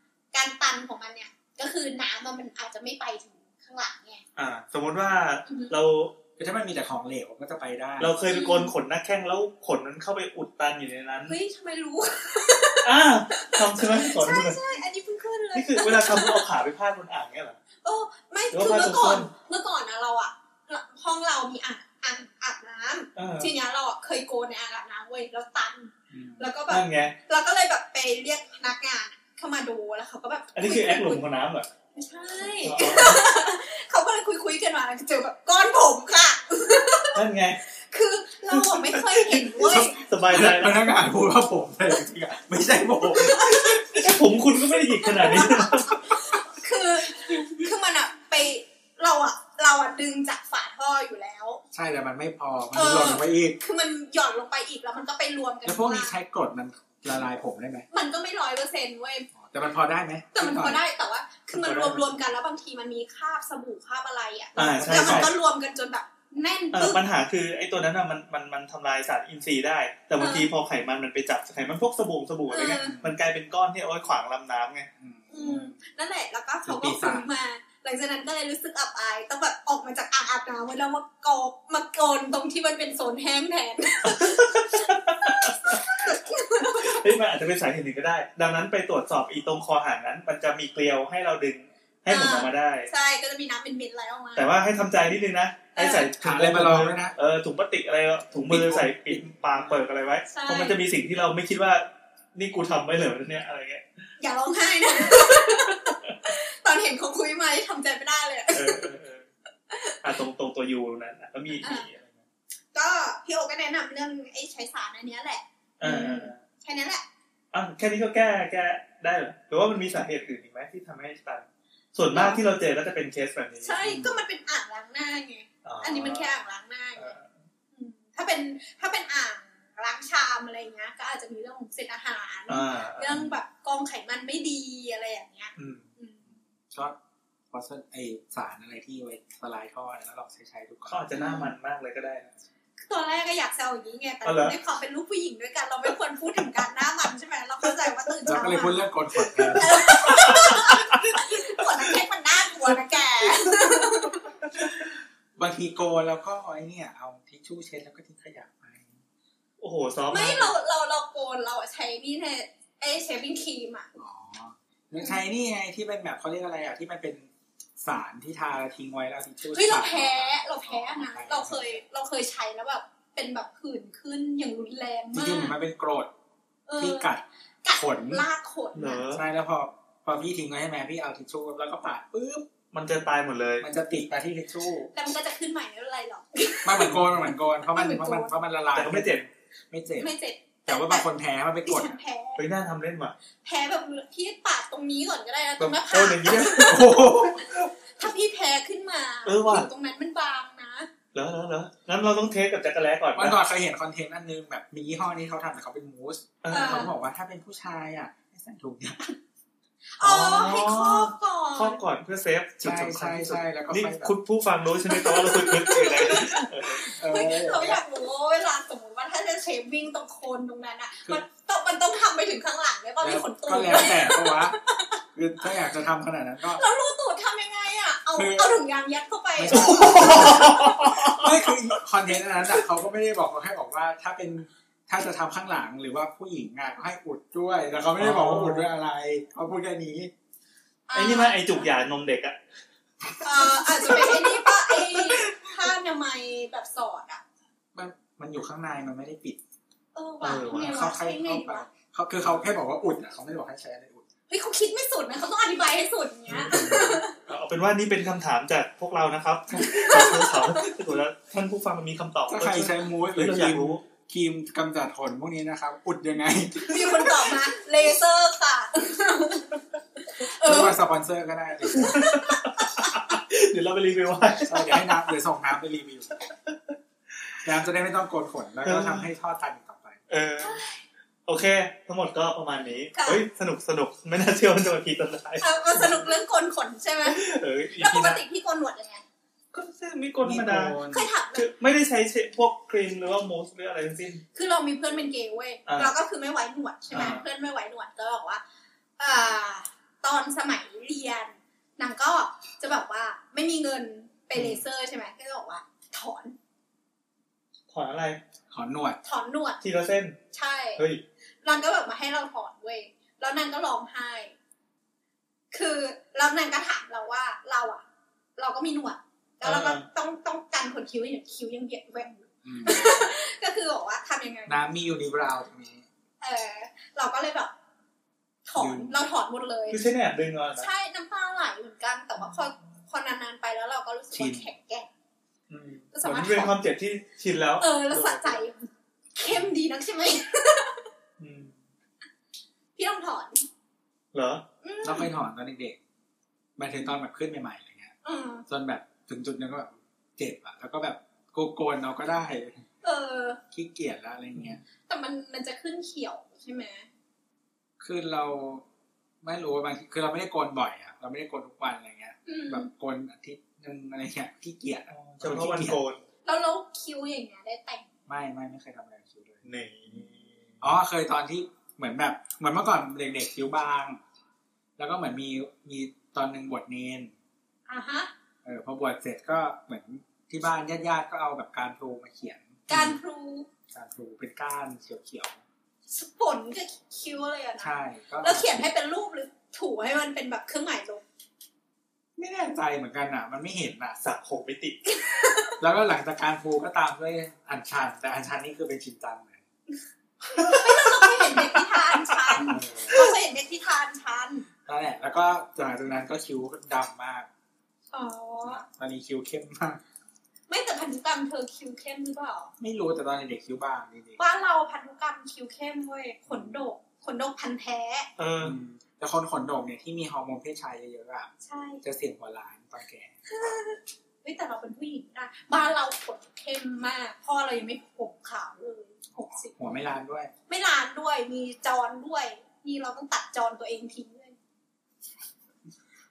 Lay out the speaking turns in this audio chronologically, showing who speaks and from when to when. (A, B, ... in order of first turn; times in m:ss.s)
0:00.3-0:04.2 A
0:04.4-0:06.1 B
0:05.4-0:05.7 A
0:06.4-0:08.1 C
0:08.0-0:11.3 B
0:08.3-0:08.7 A
0:11.2-0:16.5 A
0:12.8-0:14.6 B
0:15.5-0:17.6 B
0:17.8-0:31.2 A
0:18.5-0:19.3 B
0:23.2-0:23.5 B
0:26.1-0:26.5 C
0:26.7-0:27.2 B
0:30.5-0:31.7 B
0:31.9-0:40.0 A
0:32.6-0:33.2 B
0:37.1-0:37.6 B
0:38.5-0:40.8 B
0:39.7-0:44.1 C
0:43.0-0:43.9 A
0:43.9-0:46.0 B
0:45.2-0:51.6 A
0:51.7-0:53.6 C
0:52.7-0:56.2 A
0:55.6-0:57.9 C
0:57.9-0:59.3 A
0:59.4-1:00.8 C
1:00.3-1:07.0 A
1:01.6-1:02.0 B
1:01.6-1:01.9 C
1:04.6-1:05.3 B
1:04.8-1:05.3 C
1:06.7-1:14.9 B
1:10.2-1:10.5 A
1:12.5-1:13.0 A
1:12.8-1:13.1 C
1:15.0-1:15.8 C
1:15.3-1:27.0 A
1:16.6-1:17.3 C
1:24.0-1:25.9 B
1:26.6-1:32.9 B
1:32.1-1:34.5 A
1:34.4-1:43.8 B
1:35.8-1:36.1 A
1:36.2-1:37.2 C
1:38.5-1:39.8 C
1:40.3-1:40.8 A
1:44.2-1:48.9 A
1:48.5-1:49.2 B
1:49.7-1:50.0 A
1:50.0-1:52.2 B
1:51.6-1:51.9 A
1:52.7-1:57.0 A
1:55.8-1:56.4 B
1:57.5-2:03.7 B
2:02.1-2:02.4 A
2:03.6-2:07.2 A
2:03.8-2:04.2 C
2:05.6-2:06.4 B
2:07.0-2:07.3 B
2:07.7-2:16.2 A
2:12.5-2:13.3 B
2:15.6-2:15.8 B
2:16.7-2:17.0 C
2:17.5-2:21.0 C
2:20.9-2:22.3 B
2:21.2-2:21.5 A
2:22.8-2:28.9 A
2:24.2-2:24.6 B
2:28.2-2:30.8 C
2:29.4-2:30.8 B
2:29.5-2:34.3 A
2:35.4-2:39.0 C
2:39.6-2:40.5 B
2:40.1-2:43.9 A
2:44.0-2:51.8 C
2:49.5-2:55.6 A
2:55.1-2:56.1 C
2:56.7-2:59.0 A
2:56.8-2:58.2 C
2:58.7-2:59.2 B
2:59.1-3:02.5 C
3:02.7-3:03.6 B
3:03.6-3:04.9 C
3:04.9-3:08.3 A
3:06.6-3:10.1 C
3:08.7-3:09.3 B
3:10.0-3:11.1 A
3:10.6-3:12.0 C
3:11.6-3:12.4 A
3:12.4-3:13.2 B
3:13.4-3:20.9 A
3:15.6-3:17.0 B
3:16.6-3:17.4 C
3:19.2-3:19.7 B
3:21.1-3:23.4 B
3:23.2-3:29.2 C
3:26.4-3:26.9 B
3:26.5-3:26.9 A
3:30.0-3:31.8 A
3:30.0-3:36.9 B
3:32.6-3:34.2 C
3:34.9-3:45.0 A
3:36.8-3:37.8 C
3:43.0-3:44.6 C
3:45.1-3:46.6 C
3:46.5-3:50.9 A
3:48.1-3:48.6 C
3:49.4-4:00.1 C
3:49.5-3:51.4 B
3:58.0-3:58.7 B
4:00.9-4:01.6 A
4:00.9-4:02.4 B
4:03.2-4:07.2 A
4:03.2-4:05.7 C
4:07.7-4:09.4 C
4:09.9-4:11.7 A
4:10.2-4:10.9 B
4:10.4-4:14.0 C
4:14.3-4:17.2 A
4:16.3-4:23.8 B
4:16.5-4:17.0 C
4:19.6-4:20.7 A
4:22.3-4:27.3 C
4:26.7-4:30.8 A
4:30.4-4:32.1 C
4:31.8-4:33.0 A
4:31.9-4:34.9 B
4:34.4-4:36.1 C
4:37.4-4:40.0 C
4:38.6-4:39.1 B
4:40.1-4:40.6 B
4:40.4-4:40.8 A
4:41.2-4:46.0 B
4:42.9-4:43.2 A
4:45.4-4:47.2 A
4:47.0-4:48.2 B
4:47.8-4:49.0 A
4:49.5-4:50.8 B
4:50.2-4:51.1 C
4:50.9-4:51.5 A
4:51.3-4:54.2 B
4:54.3-4:58.4 A
4:55.6-4:55.9 B
4:56.9-4:57.2 B
4:59.0-5:06.4 A
5:04.3-5:04.6 B
5:07.7-5:08.2 B
5:08.5-5:09.0 C
5:09.0-5:09.6 A
5:09.6-5:10.2 B
5:10.3-5:10.8 A
5:10.8-5:11.0 B
5:11.4-5:14.3 A
5:15.5-5:17.8 A
5:18.4-5:24.6 A
5:19.4-5:19.8 B
5:22.4-5:23.0 C
5:24.5-5:25.8 C
5:26.2-5:27.5 A
5:28.4-5:29.8 A
5:28.6-5:29.0 C
5:29.7-5:30.7 B
5:30.6-5:34.9 A
5:34.1-5:34.5 C
5:35.5-5:38.4 B
5:35.9-5:36.6 A
5:37.6-5:40.9 A
5:41.2-5:41.5 B
5:42.8-5:43.4 A
5:44.1-5:44.4 B
5:44.6-5:45.1 A
5:44.8-5:45.8 C
5:46.6-5:47.9 C
5:48.0-5:48.4 A
5:48.5-5:52.6 C
5:52.8-5:53.4 A
5:53.5-5:54.6 C
5:54.9-5:56.9 A
5:57.8-5:58.6 C
5:59.2-6:05.8 C
6:02.2-6:02.7 A
6:04.9-6:06.0 B
6:06.2-6:07.9 A
6:08.1-6:09.4 C
6:09.4-6:10.6 B
6:10.6-6:14.0 C
6:14.8-6:17.1 C
6:17.7-6:18.1 A
6:18.4-6:23.0 C
6:22.7-6:23.5 A
6:23.7-6:25.4 C
6:25.9-6:31.0 A
6:27.6-6:28.7 C
6:32.2-6:34.0 C
6:34.0-6:34.8 B
6:34.9-6:35.6 A
6:35.6-6:39.4 C
6:40.3-6:44.5 A
6:42.3-6:43.0 C
6:44.6-6:47.3 C
6:47.9-6:48.6 A
6:48.4-6:49.8 C
6:50.5-6:52.5 A
6:52.6-6:54.2 C
6:54.2-6:58.1 A
6:56.3-6:56.6 C
6:58.2-6:58.6 B
6:58.4-7:01.3 C
7:01.4-7:01.8 A
7:01.8-7:03.2 C
7:03.3-7:09.6 A
7:09.5-7:10.3 C
7:10.5-7:14.4 A